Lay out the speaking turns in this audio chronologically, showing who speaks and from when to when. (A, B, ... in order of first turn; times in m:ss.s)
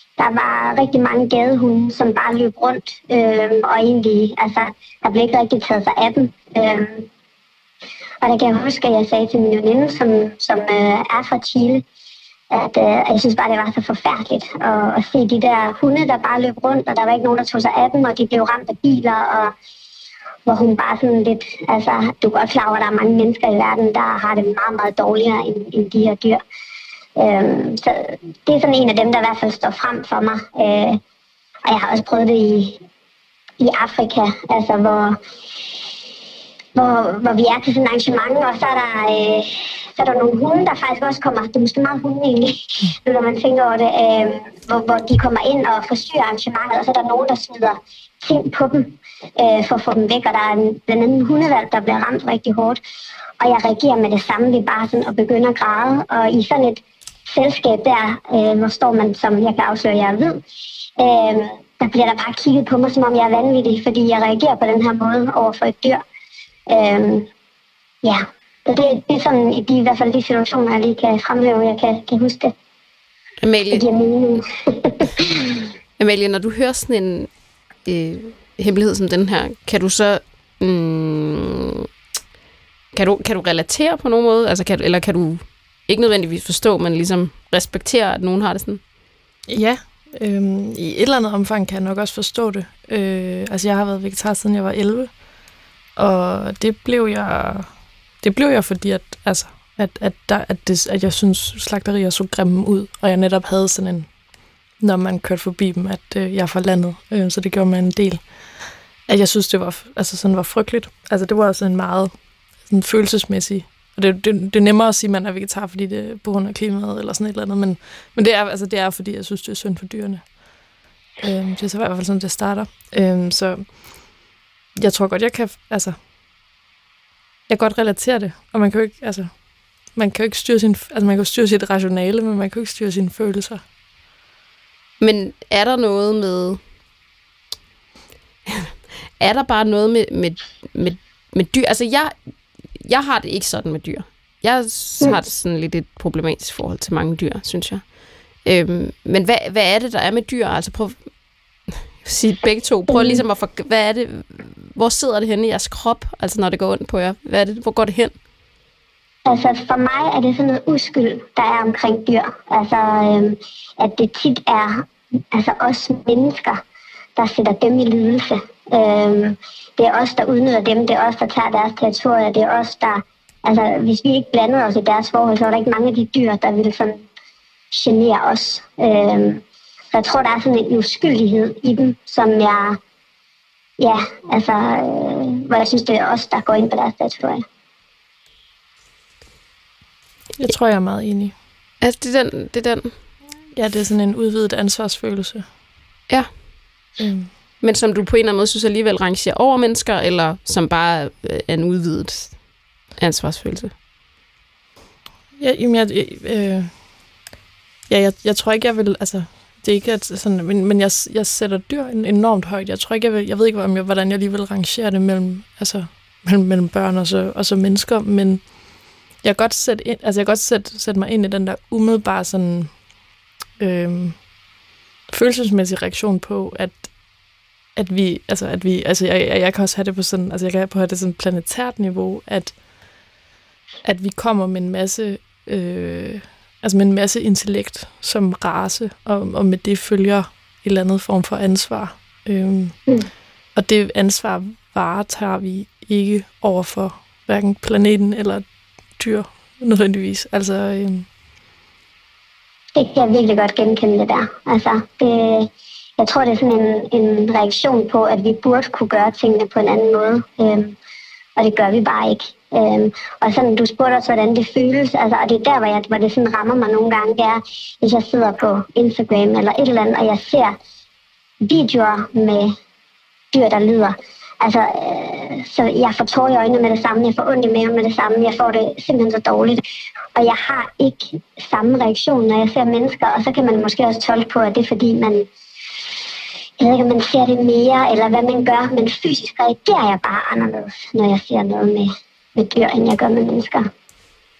0:00.2-0:07.1 A
0:08.2-0:11.8 A
0:12.5-0:19.5 A
0:20.5-0:26.4 A
0:27.2-0:31.0 A
0:31.7-0:32.8 A
0:33.6-0:35.2 A
0:36.8-0:52.8 A
0:53.4-1:00.4 A
1:01.0-1:06.0 A
1:06.7-1:07.3 A
1:08.0-1:12.5 A
1:13.4-1:13.8 B
1:13.7-1:15.7 A
1:16.0-1:17.3 B
1:17.9-1:21.9 B
1:22.9-1:28.8 B
1:29.5-1:35.1 C
1:36.0-1:37.7 C
1:38.2-1:44.1 C
1:44.8-1:48.2 C
1:49.1-1:52.1 C
1:52.7-2:00.2 C
2:01.2-2:03.7 C
2:04.8-2:06.0 C
2:07.5-2:09.3 C
2:09.9-2:13.6 C
2:15.0-2:16.6 B
2:18.5-2:22.1 B
2:22.8-2:27.9 B
2:28.4-2:31.0 B
2:32.0-2:38.1 B
2:32.9-2:33.2 A
2:39.3-2:46.6 A
2:47.2-2:57.0 A
2:57.7-3:02.8 A
3:03.8-3:07.4 A
3:10.4-3:11.3 C
3:11.8-3:12.9 B
3:13.6-3:15.5 C
3:17.0-3:17.3 C
3:17.6-3:22.4 B
3:23.0-3:23.7 B
3:25.4-3:26.7 C
3:27.9-3:38.4 C
3:39.2-3:42.7 C
3:43.6-3:44.2 C
3:45.1-3:46.9 C
3:47.8-3:52.6 C
3:53.8-4:02.8 C
4:03.6-4:08.4 C
4:09.0-4:11.1 C
4:12.8-4:20.8 A
4:21.4-4:30.6 A
4:31.4-4:32.5 A
4:33.3-4:39.6 A
4:40.2-4:45.3 A
4:46.6-4:53.7 A